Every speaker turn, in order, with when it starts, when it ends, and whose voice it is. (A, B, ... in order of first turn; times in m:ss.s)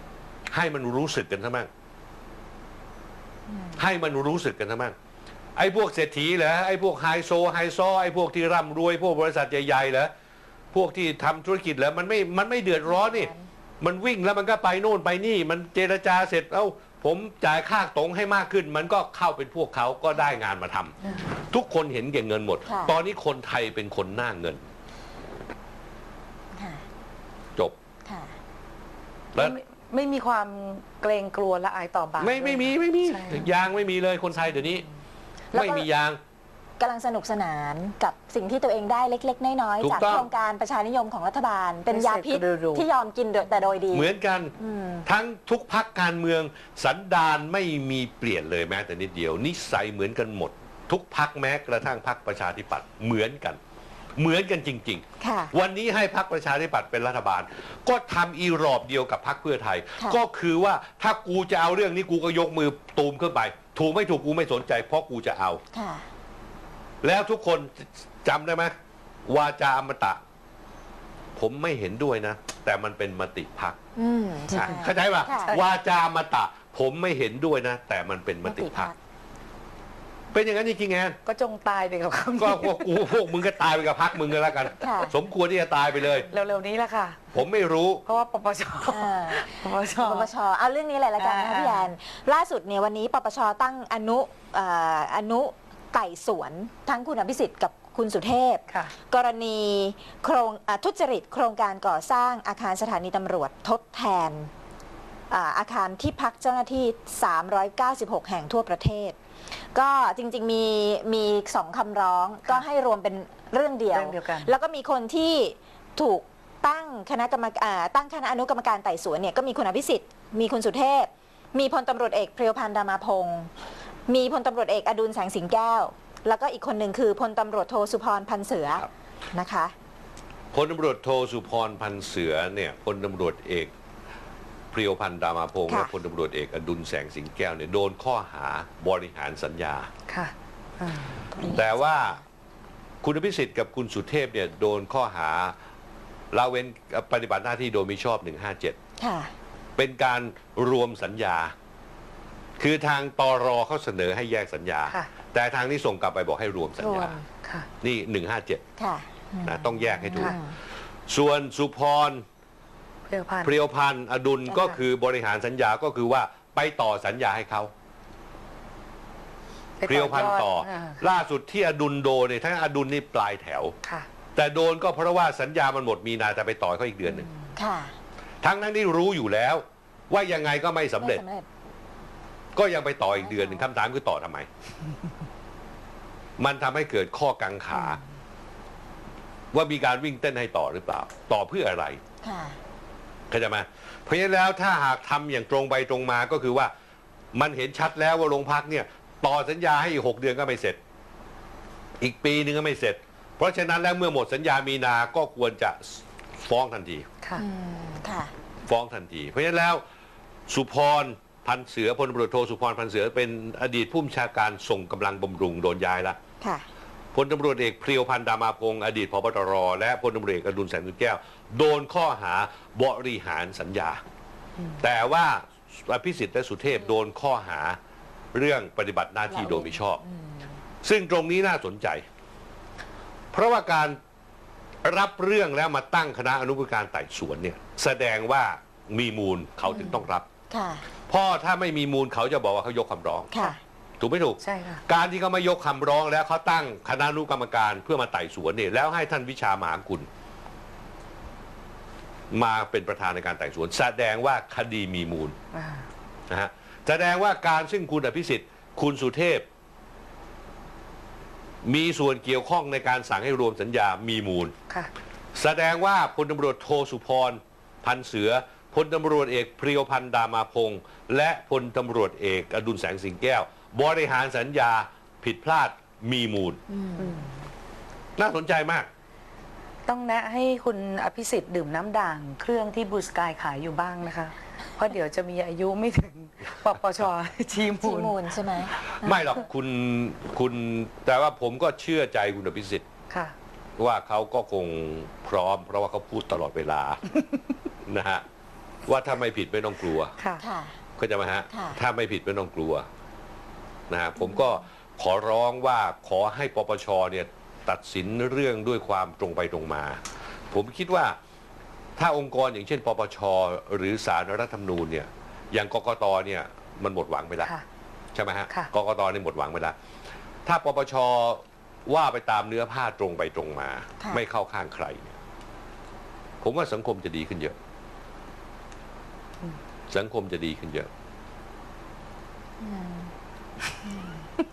0:00.5-0:01.7 A
0:03.5-0:03.8 B
0:03.8-0:05.0 A
0:05.6-0:10.1 A
0:10.7-0:20.9 A
0:12.9-0:13.5 B
0:21.0-0:21.4 C
0:21.5-0:24.6 A
0:22.7-0:23.0 B
0:26.6-0:26.8 B
0:28.0-0:28.3 B
0:29.4-0:33.5 C
0:32.2-0:34.9 A
0:35.5-0:35.9 B
0:35.5-0:36.2 A
0:36.8-0:45.0 B
0:39.8-0:40.3 A
0:41.9-0:42.9 C
0:43.9-0:44.5 A
0:45.1-0:53.6 A
0:54.2-1:05.6 A
0:55.2-0:55.5 B
1:05.7-1:06.1 B
1:07.0-1:08.7 A
1:09.3-1:10.2 A
1:11.4-1:13.8 A
1:14.0-1:15.6 B
1:14.6-1:18.9 A
1:15.4-1:15.7 C
1:18.5-1:18.9 B
1:20.3-1:21.2 A
1:21.3-1:23.1 C
1:22.4-1:26.3 A
1:24.8-1:25.1 B
1:26.3-1:27.4 C
1:27.3-1:28.0 A
1:28.1-1:30.3 C
1:28.9-1:44.5 B
1:31.2-1:31.9 C
1:45.3-1:49.2 B
1:49.7-2:03.5 B
1:53.9-1:54.5 C
2:04.1-2:09.7 B
2:10.5-2:13.7 A
2:14.7-2:19.9 A
2:20.1-2:21.2 C
2:21.3-2:21.8 B
2:21.5-2:22.2 A
2:23.0-2:25.6 A
2:26.3-2:28.8 A
2:29.0-2:29.3 B
2:29.8-2:31.5 A
2:32.6-2:37.2 A
2:36.8-2:37.2 B
2:37.4-2:37.7 C
2:37.8-2:38.6 A
2:38.8-2:40.6 B
2:39.4-2:40.4 A
2:41.1-2:42.2 A
2:43.1-2:43.5 C
2:43.4-2:47.7 A
2:49.8-2:51.0 C
2:49.9-2:53.7 A
2:54.4-2:57.3 A
2:57.5-2:57.9 B
2:58.4-3:01.2 A
3:01.0-3:01.5 B
3:02.6-3:04.5 A
3:03.2-3:03.6 B
3:06.4-3:08.0 A
3:09.5-3:12.0 A
3:12.2-3:12.6 B
3:13.3-3:16.7 A
3:17.3-3:20.8 A
3:22.0-3:27.1 A
3:27.4-3:28.3 B
3:28.7-3:29.8 A
3:30.5-3:36.2 A
3:37.1-3:44.0 A
3:44.8-3:47.8 A
3:48.3-3:50.0 A
3:50.0-3:50.4 B
3:50.8-3:52.0 A
3:53.3-3:54.0 A
3:54.8-4:00.3 A
3:59.7-4:00.0 B
4:00.5-4:00.8 B
4:01.1-4:10.1 A
4:03.3-4:03.6 B
4:04.4-4:04.8 C
4:12.3-4:15.4 A
4:15.5-4:15.9 C
4:16.3-4:19.5 A
4:21.6-4:24.5 A
4:25.4-4:36.6 A
4:36.7-4:37.3 B
4:37.0-4:37.3 C
4:38.2-4:38.9 A
4:39.9-4:48.2 C
4:47.8-4:49.3 B
4:48.9-4:52.9 A
4:53.8-4:57.0 A
4:57.9-4:58.2 A
4:58.9-5:00.2 A
5:00.4-5:00.8 B
5:01.0-5:02.9 A
5:01.5-5:01.8 B
5:03.9-5:10.0 A
5:10.5-5:11.2 A
5:12.0-5:17.5 A
5:18.1-5:19.8 A
5:20.5-5:25.2 A
5:26.4-5:27.6 A
5:29.9-5:30.9 A
5:32.6-5:33.1 B
5:33.8-5:34.3 B